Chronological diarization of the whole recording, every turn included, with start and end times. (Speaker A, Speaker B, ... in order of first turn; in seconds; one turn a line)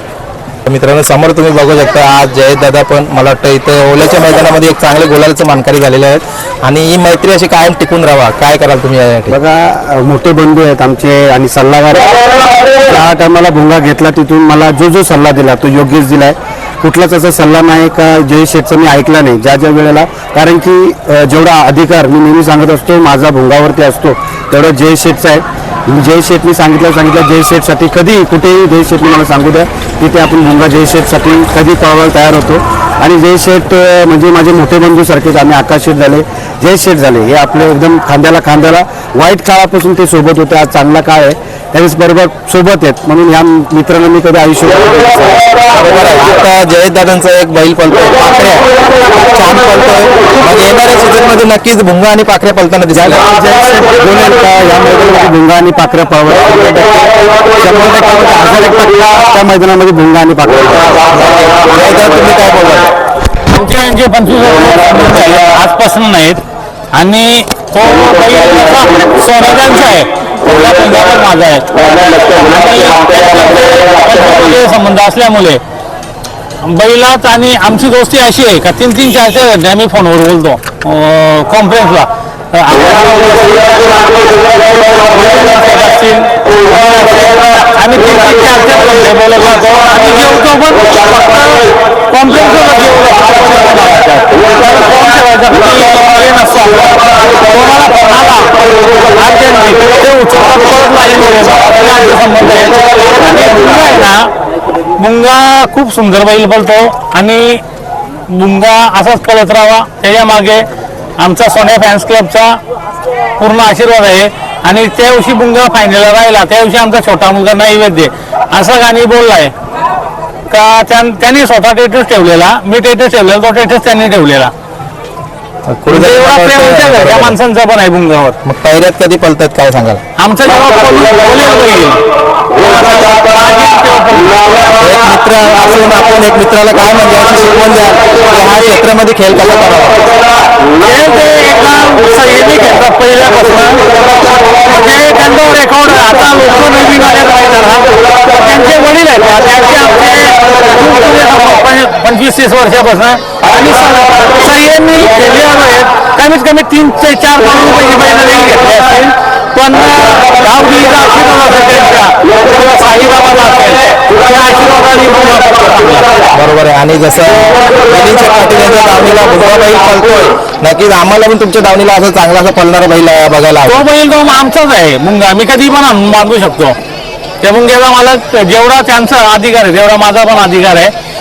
Speaker A: 0.7-9.3
Speaker B: 9.3-45.4
Speaker A: 45.7-53.2
Speaker B: 52.9-61.1
Speaker A: 61.1-62.9
Speaker C: 63.5-66.4
Speaker C: 66.9-75.6
Speaker C: 76.6-104.3
Speaker C: 105.0-107.6
Speaker C: 108.3-110.7
Speaker C: 111.2-112.6
Speaker C: 113.4-119.5
Speaker C: 120.5-124.5
Speaker A: 125.7-127.4
Speaker C: 125.9-128.4
Speaker A: 128.4-130.0
Speaker C: 130.2-132.0
Speaker C: 132.6-134.5
Speaker A: 134.8-140.0
Speaker C: 140.8-143.8
Speaker C: 144.6-166.1
Speaker A: 166.3-173.8
Speaker C: 173.7-176.8
Speaker C: 177.4-180.9